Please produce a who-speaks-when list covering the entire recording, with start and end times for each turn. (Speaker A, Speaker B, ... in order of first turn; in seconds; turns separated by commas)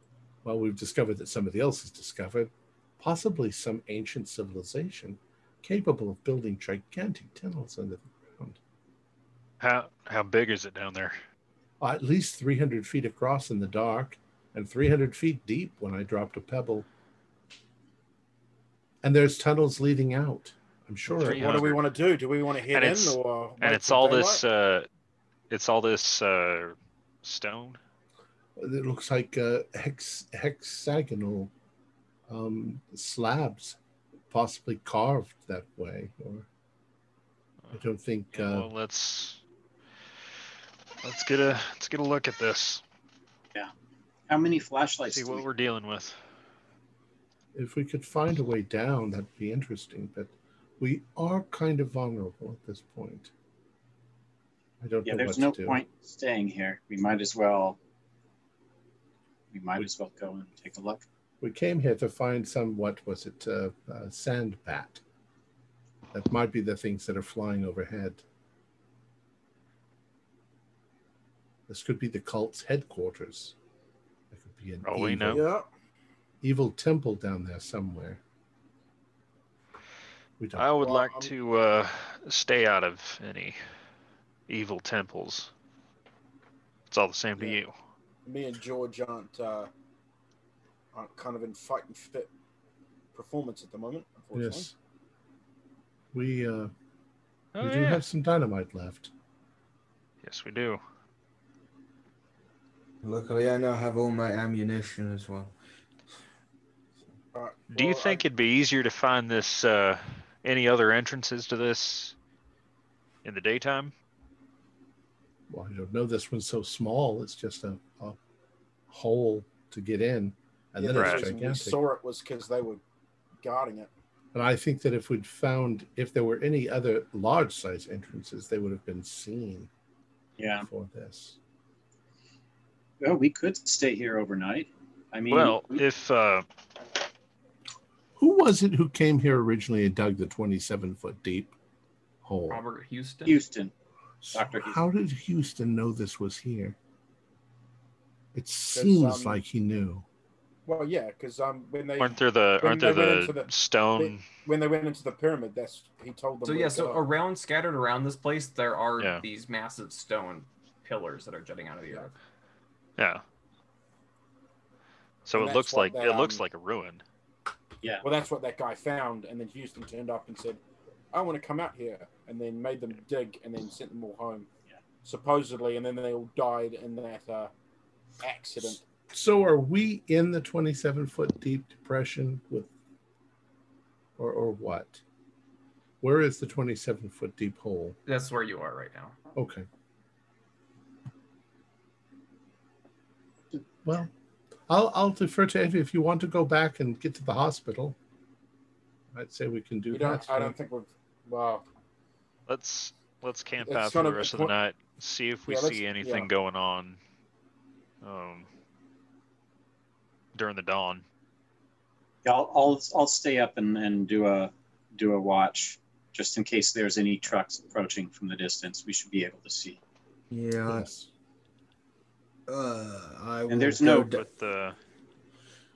Speaker A: 0.4-8.6, Speaker B: 9.6-11.2, Speaker A: 11.8-16.9, Speaker A: 19.0-21.6, Speaker B: 21.1-21.9, Speaker C: 21.2-24.4, Speaker B: 22.7-24.9, Speaker B: 25.5-27.8, Speaker A: 28.6-31.5, Speaker A: 32.3-33.8, Speaker A: 34.3-36.5, Speaker A: 37.7-38.7, Speaker B: 38.3-39.4, Speaker B: 41.0-42.8, Speaker D: 44.3-45.4, Speaker B: 45.0-46.2, Speaker A: 47.5-53.3, Speaker A: 54.8-55.8, Speaker D: 55.0-57.8, Speaker D: 59.5-61.0, Speaker A: 61.4-65.0, Speaker A: 66.1-68.2, Speaker A: 71.7-73.5, Speaker A: 74.3-75.4, Speaker B: 74.8-75.4, Speaker C: 75.3-75.6, Speaker A: 76.4-78.2, Speaker A: 80.4-80.7, Speaker B: 80.5-83.6, Speaker C: 80.8-81.3, Speaker B: 84.5-85.5, Speaker B: 86.9-87.7, Speaker C: 88.2-89.7, Speaker C: 90.9-92.3, Speaker C: 93.1-94.7, Speaker A: 94.3-94.7, Speaker A: 96.1-96.7, Speaker B: 97.5-98.0, Speaker A: 97.6-99.1, Speaker B: 100.2-100.8, Speaker E: 103.0-105.5, Speaker C: 107.3-108.2, Speaker B: 107.7-112.1, Speaker B: 113.2-113.9, Speaker A: 115.5-118.2, Speaker A: 118.9-121.8, Speaker C: 120.8-122.8, Speaker B: 121.0-121.3, Speaker C: 123.4-123.9, Speaker A: 124.3-129.7, Speaker D: 130.4-130.7, Speaker A: 130.6-131.4, Speaker D: 133.0-135.8, Speaker B: 135.3-136.4, Speaker A: 138.2-141.5, Speaker A: 142.2-142.6, Speaker F: 142.5-143.4, Speaker D: 143.2-143.7, Speaker A: 144.2-146.8, Speaker D: 144.3-144.8, Speaker A: 148.3-150.0, Speaker C: 148.7-149.4, Speaker C: 150.7-157.0, Speaker B: 152.0-154.2, Speaker F: 156.4-162.1, Speaker B: 163.0-163.2, Speaker B: 165.2-167.0, Speaker C: 165.4-166.4, Speaker C: 168.0-170.6, Speaker C: 171.1-174.5, Speaker C: 175.0-177.5, Speaker C: 178.2-178.8, Speaker A: 179.1-182.7, Speaker A: 184.2-185.0, Speaker A: 186.0-188.0, Speaker F: 188.1-189.2, Speaker A: 189.3-189.7, Speaker A: 193.8-194.1, Speaker A: 194.7-197.9, Speaker A: 199.1-200.5, Speaker C: 199.9-201.6, Speaker B: 202.5-207.0, Speaker C: 203.6-204.5, Speaker C: 205.5-206.3, Speaker B: 208.0-208.5, Speaker B: 210.3-211.0, Speaker D: 212.2-219.8, Speaker E: 220.3-220.9, Speaker A: 220.6-221.1, Speaker E: 222.5-224.2, Speaker D: 223.5-224.2, Speaker B: 224.1-224.8